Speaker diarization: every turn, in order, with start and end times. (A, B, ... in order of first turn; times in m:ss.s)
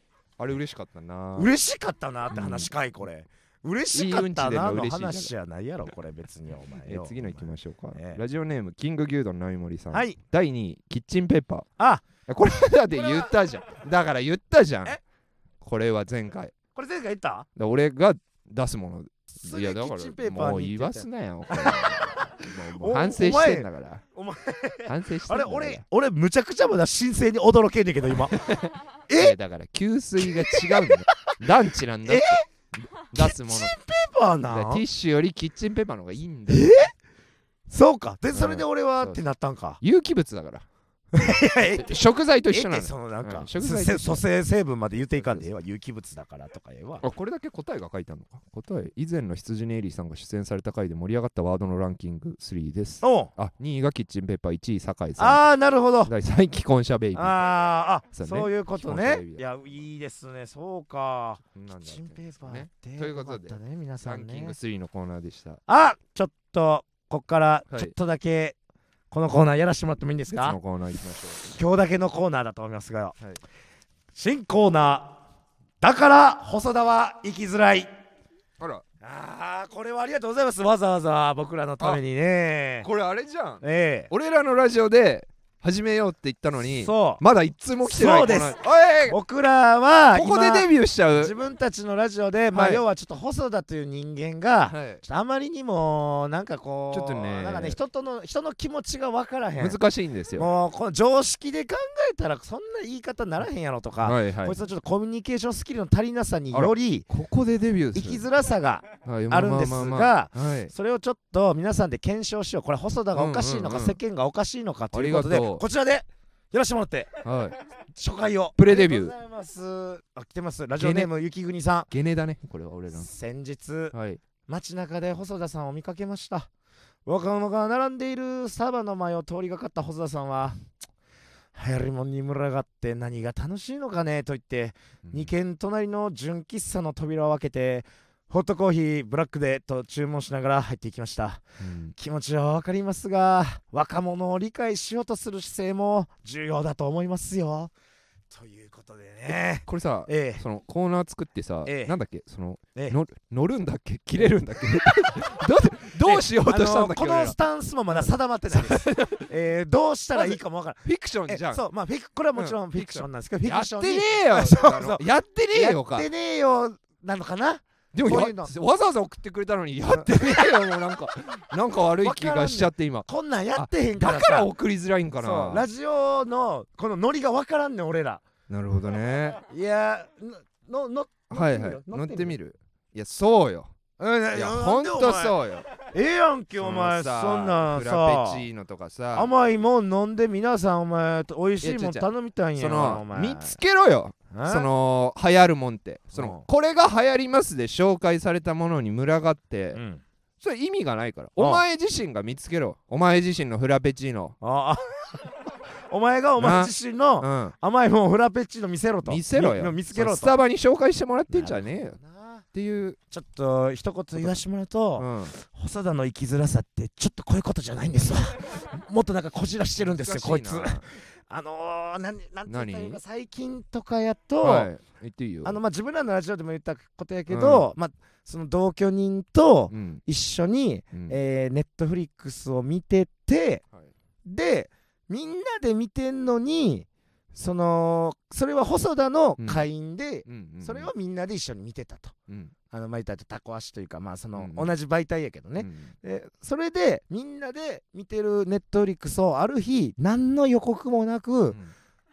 0:00.4-0:01.5 A
0:01.4-0:08.2 B
0:02.3-0:02.7 A
0:03.9-0:05.3 A
0:06.8-0:11.7 A
0:09.9-0:10.2 B
0:11.8-0:12.1 B
0:12.2-0:15.0 A
0:12.9-0:13.3 B
0:15.6-0:16.5 A
0:16.7-0:17.5 B
0:17.6-0:24.0 A
0:19.4-0:28.4 B
0:24.9-0:25.8 A
0:28.3-0:33.7 A
0:29.1-0:29.4 B
0:30.2-0:31.4 B
0:32.0-0:32.4 B
0:33.1-0:34.8 B
0:34.5-0:36.8 A
0:36.5-0:36.9 B
0:37.7-0:39.8 B
0:38.3-0:39.2 A
0:39.8-0:40.6 A
0:41.1-0:47.0 B
0:41.7-0:44.2 A
0:45.2-0:45.4 A
0:47.0-0:55.4 A
0:53.0-0:53.3 B
0:55.2-0:56.1 B
0:56.0-0:57.5 A
0:57.1-1:04.6 B
0:58.1-0:59.4 A
1:01.5-1:05.6 A
1:05.7-1:08.6 B
1:09.1-1:10.6 B
1:10.3-1:11.5 A
1:11.4-1:13.2 B
1:14.1-1:15.2 B
1:15.8-1:17.9 B
1:19.0-1:22.9 B
1:22.8-1:29.2 A
1:23.6-1:24.1 B
1:26.6-1:27.2 B
1:27.8-1:39.8 B
1:30.1-1:31.3 A
1:32.5-1:32.8 A
1:34.7-1:35.0 A
1:36.9-1:37.8 A
1:39.6-1:40.5 A
1:40.4-1:47.1 B
1:44.0-1:44.6 A
1:46.5-1:48.2 A
1:47.9-1:57.1 B
1:49.0-1:50.7 A
1:53.1-1:54.0 A
1:54.9-1:55.6 A
1:57.2-1:57.6 A
1:57.9-2:01.9 B
1:58.6-1:59.1 A
2:00.8-2:01.1 A
2:01.9-2:03.1 A
2:02.9-2:03.9 B
2:03.9-2:04.2 A
2:04.5-2:06.5 B
2:07.1-2:10.6 B
2:11.5-2:21.4 B
2:15.0-2:15.3 A
2:21.6-2:21.9 A
2:21.9-2:27.7 B
2:28.3-2:30.4 B
2:29.3-2:37.4 A
2:31.6-2:31.9 B
2:35.8-2:48.5 B
2:37.9-2:39.3 A
2:40.1-2:41.6 A
2:42.4-2:46.1 A
2:47.9-2:55.7 A
2:49.9-2:50.6 B
2:52.0-2:54.5 B
2:55.1-2:58.2 B
2:58.5-2:59.4 A
2:59.4-3:02.4 B
3:01.3-3:03.7 A
3:04.0-3:08.4 B
3:04.3-3:05.7 A
3:06.6-3:09.3 A
3:09.1-3:13.6 B
3:11.6-3:19.8 A
3:14.3-3:14.7 B
3:16.1-3:16.4 B
3:19.7-3:20.0 B
3:20.4-3:24.4 A
3:24.4-3:30.3 B
3:26.4-3:27.5 A
3:29.0-3:32.0 A
3:31.3-3:32.4 B
3:32.5-3:33.0 A
3:33.1-3:44.7 B
3:35.0-3:35.4 A
3:39.8-3:40.9 A
3:42.5-3:43.0 A
3:44.4-3:45.6 A
3:45.4-3:53.6 B
3:47.3-3:47.7 A
3:49.7-3:50.0 A
3:54.2-4:02.1 B
3:59.4-3:59.6 A
4:00.2-4:00.9 A
4:02.3-4:02.5 A
4:02.7-4:11.6 B
4:04.4-4:04.7 A
4:05.6-4:05.9 A